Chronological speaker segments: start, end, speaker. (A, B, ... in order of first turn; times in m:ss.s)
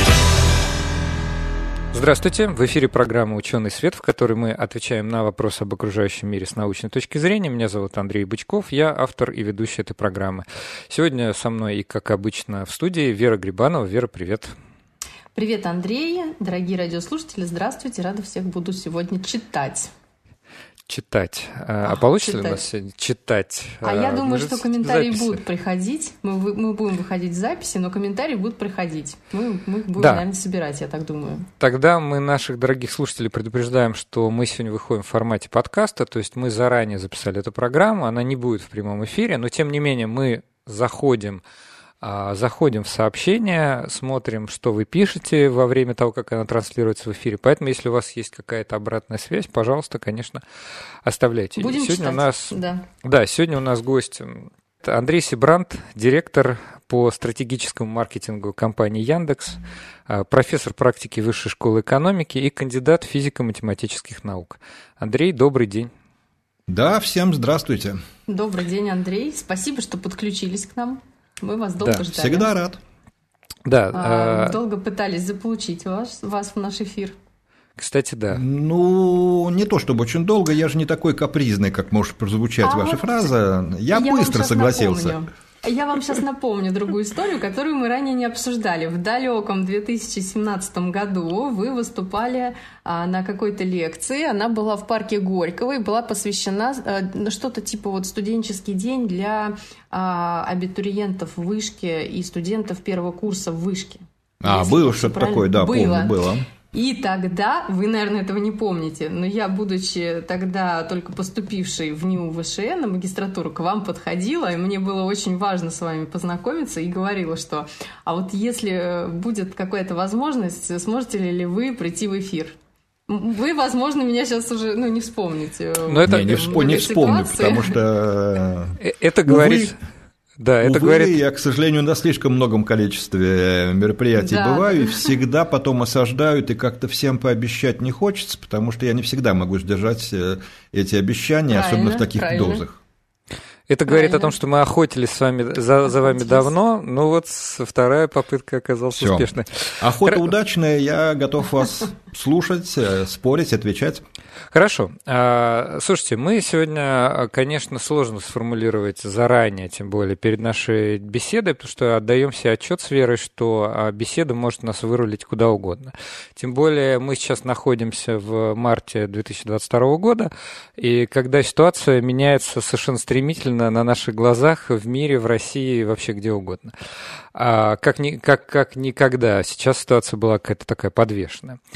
0:01.9-0:14.5 A
0:15.3-0:19.9 B
0:20.9-0:25.4 A
0:21.8-0:22.6 B
0:23.8-0:31.5 B
0:30.0-0:30.2 A
0:31.6-0:41.4 A
0:42.0-0:50.4 A
0:51.0-1:05.9 A
0:51.6-0:52.8 B
1:06.7-1:08.0 C
1:08.3-1:12.5 B
1:12.0-1:12.8 C
1:13.6-1:14.6 A
1:13.9-1:17.1 B
1:17.8-1:18.4 A
1:18.3-1:25.2 C
1:22.6-1:23.1 B
1:23.9-1:46.1 B
1:44.4-1:46.5 C
1:46.7-2:02.6 B
2:03.1-2:07.8 B
2:05.9-2:06.5 A
2:06.0-2:09.7 C
2:08.8-2:09.7 A
2:10.4-2:11.2 A
2:10.6-2:22.8 C
2:14.2-2:15.1 B
2:21.5-2:22.6 B
2:23.7-2:30.2 A
2:23.9-2:24.3 B
2:26.2-2:26.4 B
2:28.9-2:34.0 C
2:34.5-2:56.7 A
2:57.3-3:01.6 A